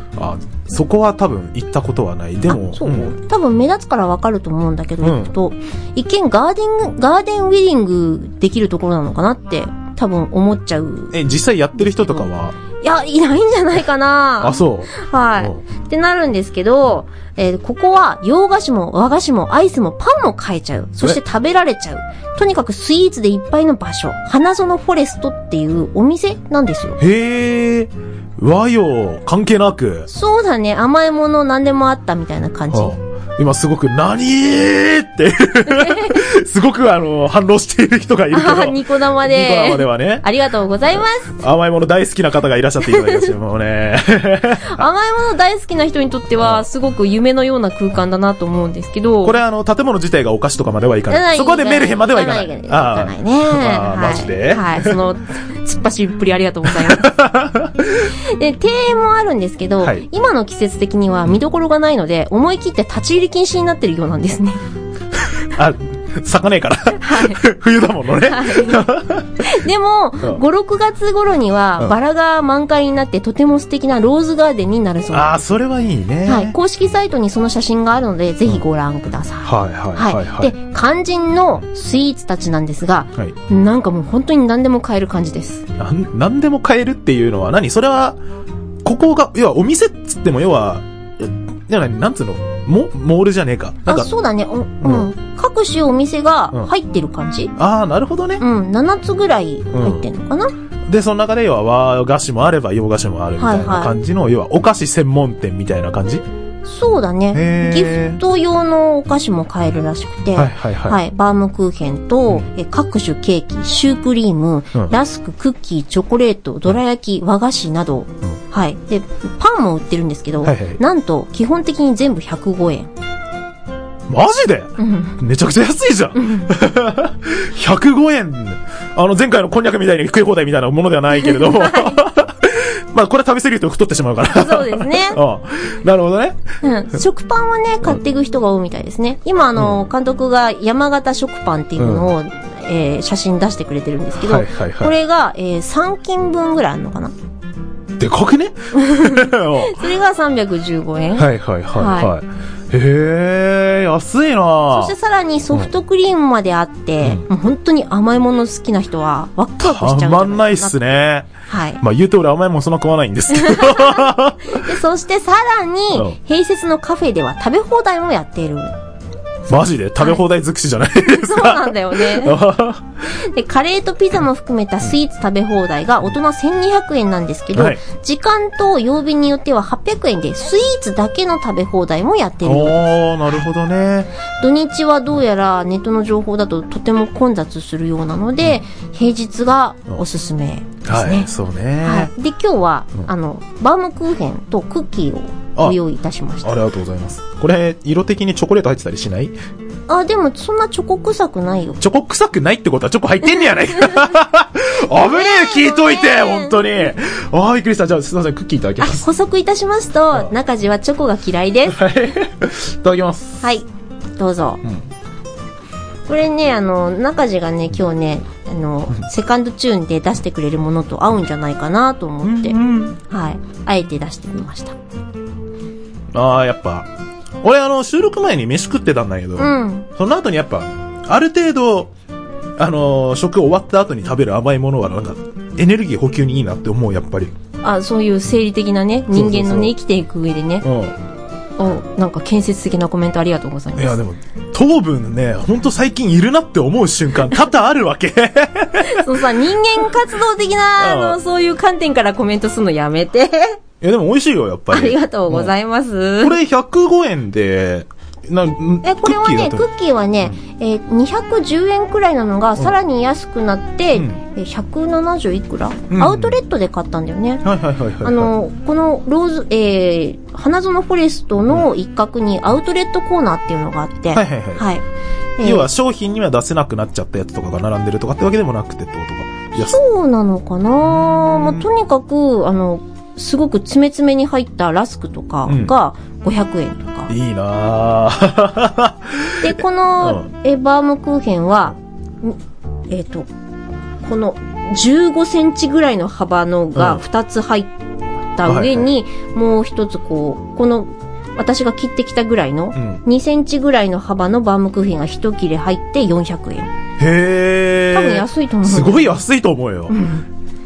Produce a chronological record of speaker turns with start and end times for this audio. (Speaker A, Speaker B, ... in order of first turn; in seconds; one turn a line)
Speaker A: 0.2-3.1
Speaker B: 2.5-11.2
Speaker A: 5.0-5.3
Speaker A: 11.1-12.6
Speaker B: 12.8-27.0
Speaker A: 14.4-15.6
Speaker A: 27.0-30.1
Speaker B: 30.1-33.0
Speaker A: 32.7-40.2
Speaker B: 35.6-36.1
Speaker B: 38.3-41.3
Speaker A: 41.3-44.8
Speaker B: 44.6-49.4
Speaker A: 46.4-46.6
Speaker A: 49.2-55.0
Speaker B: 51.1-57.1
Speaker A: 56.6-57.9
Speaker B: 58.0-64.6
Speaker A: 65.5-69.5
Speaker B: 67.0-67.4
Speaker B: 68.2-68.9
Speaker B: 69.4-75.5
Speaker A: 75.1-76.5
Speaker B: 76.2-85.6
Speaker A: 79.4-80.5
Speaker A: 85.8-88.2
Speaker A: 88.8-94.1
Speaker B: 93.9-97.5
Speaker A: 94.8-95.1
Speaker A: 97.6-98.4
Speaker B: 98.4-100.5
Speaker A: 99.7-100.1
Speaker A: 100.9-106.2
Speaker B: 103.4-103.9
Speaker B: 106.6-122.9
Speaker A: 107.3-108.2
Speaker A: 110.3-111.0
Speaker A: 120.4-120.8
Speaker A: 124.1-136.4
Speaker B: 124.8-125.2
Speaker B: 126.2-126.5
Speaker B: 131.3-132.0
Speaker B: 134.3-135.2
Speaker B: 136.6-147.1
Speaker A: 141.8-142.1
Speaker A: 144.2-144.9
Speaker A: 148.0-149.8
Speaker B: 148.8-152.1
Speaker A: 151.2-154.9
Speaker B: 154.7-160.7
Speaker A: 159.6-161.3
Speaker B: 161.5-161.8
Speaker A: 161.8-164.6
Speaker B: 163.4-168.7
Speaker A: 169.5-172.9
Speaker B: 171.0-172.4
Speaker B: 173.1-182.9
Speaker A: 177.5-177.8
Speaker A: 182.4-184.1
Speaker B: 184.4-191.3
Speaker A: 190.8-192.1
Speaker B: 191.8-196.6
Speaker A: 196.4-199.3
Speaker B: 199.9-201.8
Speaker A: 201.8-209.1
Speaker B: 205.0-206.6
Speaker B: 208.8-211.8
Speaker A: 211.7-213.4
Speaker B: 213.4-214.6
Speaker B: 216.1-224.8
Speaker A: 222.2-223.0
Speaker A: 226.1-226.9
Speaker A: 227.4-231.9
Speaker B: 229.4-229.9
Speaker A: 232.6-237.3
Speaker B: 237.6-240.7
Speaker A: 239.1-239.7
Speaker A: 240.6-241.0
Speaker B: 241.6-244.0
Speaker A: 243.8-249.1
Speaker B: 248.8-253.6
Speaker A: 250.8-251.2
Speaker A: 253.8-255.5
Speaker B: 254.7-256.4
Speaker A: 256.2-259.6
Speaker B: 258.8-267.4
Speaker A: 263.9-264.2
Speaker A: 265.9-266.4
Speaker A: 267.4-268.3
Speaker B: 268.0-274.8
Speaker A: 274.1-274.7
Speaker B: 275.4-275.7
Speaker A: 275.4-279.8
Speaker B: 279.6-287.1
Speaker A: 280.9-281.6
Speaker A: 285.4-285.7
Speaker A: 287.1-290.3
Speaker B: 289.4-292.4
Speaker B: 292.9-293.3
Speaker B: 294.0-297.7
Speaker A: 296.7-297.0
Speaker B: 298.4-306.7
Speaker A: 298.4-298.9
Speaker A: 302.7-303.0
Speaker A: 307.0-310.0
Speaker B: 307.9-309.2
Speaker B: 309.9-310.3